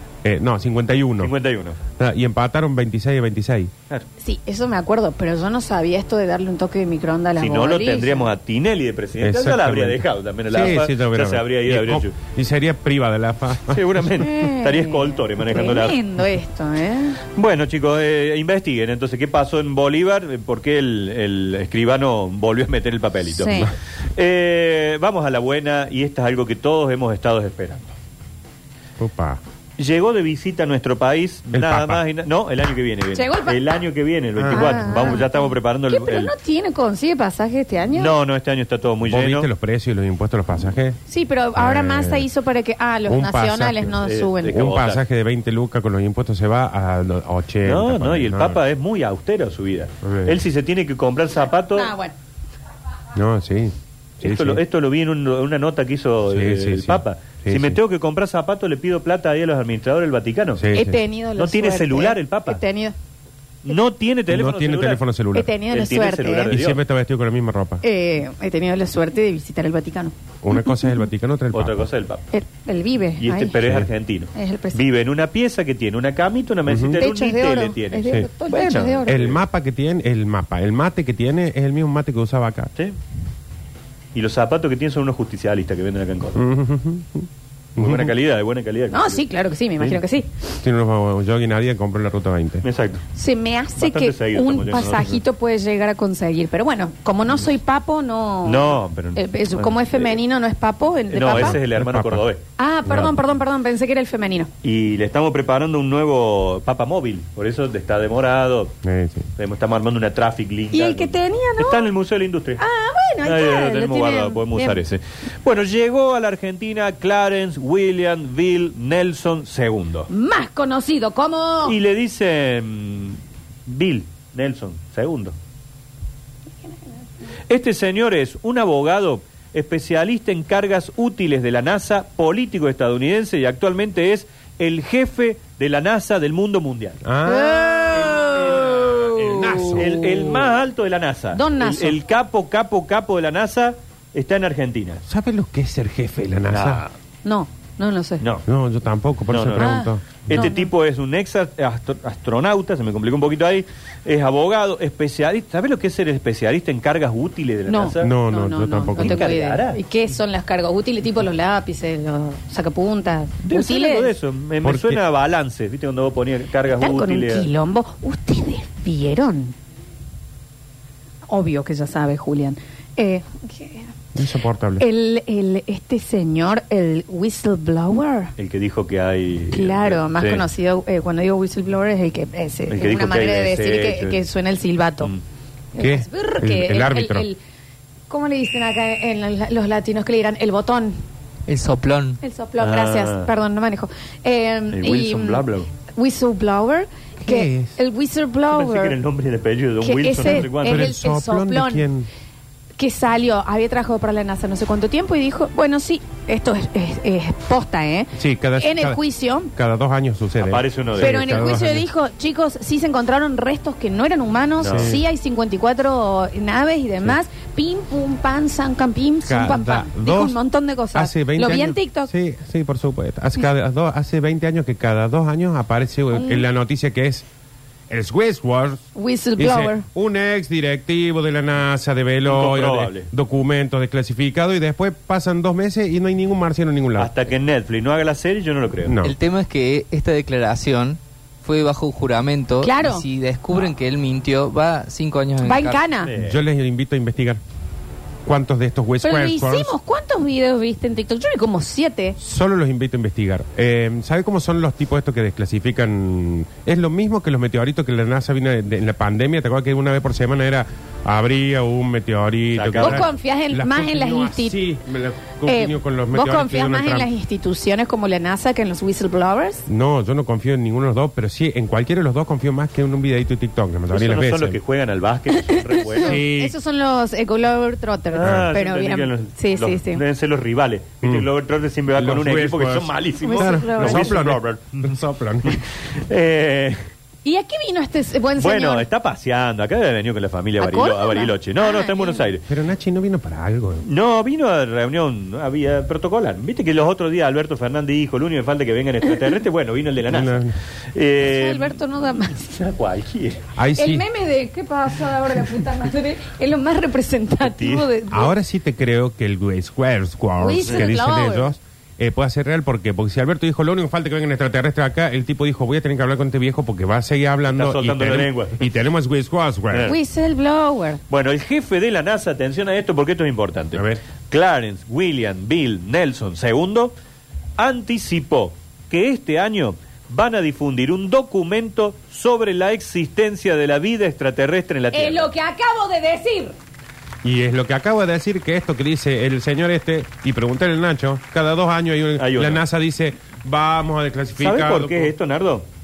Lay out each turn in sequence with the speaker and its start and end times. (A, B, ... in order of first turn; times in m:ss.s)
0:00.2-0:01.3 A
0:01.2-0:01.8 B
0:02.0-0:03.7 A
0:04.2-0:08.3 C
0:07.4-0:12.2 B
0:09.2-0:14.2 A
0:13.7-0:16.0 B
0:14.2-0:17.2 C
0:17.4-0:27.9 B
0:23.3-0:23.7 C
0:29.0-0:29.4 A
0:29.8-0:36.3 B
0:31.5-0:32.0 A
0:33.2-0:33.6 C
0:34.4-0:35.2 A
0:34.5-0:38.2 C
0:38.0-0:39.5 B
0:39.0-0:41.0 A
0:41.1-0:44.6 C
0:41.6-0:42.3 A
0:43.1-0:48.6 A
0:44.0-0:45.0 B
0:47.6-0:51.9 B
0:50.0-0:50.4 A
0:51.7-0:52.2 C
0:53.2-0:54.6 A
0:54.2-1:00.7 B
0:56.3-0:57.8 A
1:00.6-1:01.0 A
1:00.7-1:03.0 C
1:01.4-1:02.6 B
1:03.6-1:05.0 B
1:04.3-1:05.5 A
1:05.3-1:06.5 C
1:05.7-1:06.8 B
1:06.5-1:07.8 A
1:07.8-1:10.2 C
1:10.4-1:11.9 A
1:11.5-1:12.2 B
1:12.3-1:13.6 C
1:13.2-1:19.4 B
1:13.6-1:13.9 A
1:14.4-1:14.8 C
1:16.7-1:17.0 A
1:17.0-1:19.2 C
1:19.1-1:22.7 A
1:24.2-1:26.4 B
1:26.4-1:28.1 A
1:27.8-1:29.2 B
1:28.9-1:30.3 C
1:30.6-1:32.7 A
1:32.6-1:33.0 B
1:33.2-1:41.6 C
1:33.8-1:35.2 B
1:38.4-1:40.2 B
1:41.1-1:42.4 B
1:41.3-1:42.2 A
1:42.6-1:44.5 C
1:44.6-1:48.7 B
1:48.8-1:49.3 A
1:49.4-1:52.6 B
1:50.7-1:51.9 C
1:52.6-1:54.8 C
1:53.2-2:00.1 B
2:00.1-2:01.8 C
2:01.6-2:05.4 B
2:06.6-2:07.0 C
2:07.5-2:17.0 B
2:17.0-2:20.3 A
2:17.3-2:20.0 C
2:17.9-2:25.0 B
2:21.3-2:22.0 C
2:25.1-2:26.8 A
2:26.5-2:26.9 B
2:27.2-2:28.2 C
2:28.5-2:30.3 A
2:29.3-2:38.1 B
2:29.6-2:30.7 C
2:37.7-2:44.1 C
2:38.0-2:39.3 A
2:39.0-2:39.8 B
2:43.4-2:47.5 B
2:44.6-2:45.0 A
2:46.8-2:49.6 C
2:51.3-2:53.9 C
2:54.2-2:54.8 A
2:54.8-2:58.3 C
2:58.4-3:00.4 B
2:59.5-3:05.1 C
3:02.7-3:04.2 B
3:05.7-3:07.4 C
3:05.8-3:07.3 A
3:08.1-3:11.0 C
3:11.5-3:12.2 D
3:12.2-3:19.0 C
3:12.6-3:13.3 B
3:14.7-3:15.7 B
3:17.2-3:17.7 A
3:18.5-3:20.9 B
3:19.8-3:21.9 C
3:20.2-3:22.1 A
3:22.8-3:29.5 C
3:28.2-3:29.0 A
3:29.6-3:31.9 A
3:30.4-3:31.4 B
3:31.0-3:42.1 C
3:34.6-3:35.0 B
3:34.7-3:35.0 A
3:39.3-3:40.4 A
3:40.9-3:47.2 A
3:46.1-3:46.4 C
3:47.9-3:48.8 A
3:49.0-3:49.9 C
3:49.4-3:57.1 A
3:52.2-3:53.1 B
3:57.0-3:59.0 B
3:58.9-3:59.2 A
3:59.0-4:05.8 D
4:02.6-4:03.0 C
4:05.4-4:06.1 C
4:06.1-4:06.4 B
4:06.2-4:07.4 A
4:08.2-4:09.7 A
4:09.0-4:12.2 C
4:12.2-4:27.1 A
4:22.5-4:23.1 B
4:22.8-4:24.6 C
4:25.5-4:29.7 C
4:29.7-4:34.6 A
4:33.9-4:36.2 B
4:35.5-4:40.0 C
4:36.0-4:36.6 A
4:38.1-4:46.8 B
4:38.2-4:38.5 A
4:41.0-4:41.3 A
4:42.0-4:45.6 A
4:43.2-4:44.2 C
4:47.2-4:48.9 C
4:48.4-4:52.5 B
4:50.6-4:52.3 C
4:52.5-4:53.9 A
4:53.8-5:01.8 B
5:00.1-5:00.6 A
5:01.2-5:02.6 C
5:02.5-5:03.4 B
5:03.6-5:04.1 A
5:03.8-5:08.3 C
5:07.4-5:07.9 B
5:08.1-5:19.9 A
5:10.4-5:11.6 C
5:17.5-5:18.6 B
5:19.7-5:20.0 B
5:19.9-5:21.0 C
5:21.1-5:26.9 B
5:23.7-5:24.0 A
5:27.6-5:35.3 B
5:34.9-5:36.6 C
5:37.2-5:45.1 A
5:42.2-5:42.6 B
5:44.4-5:45.6 B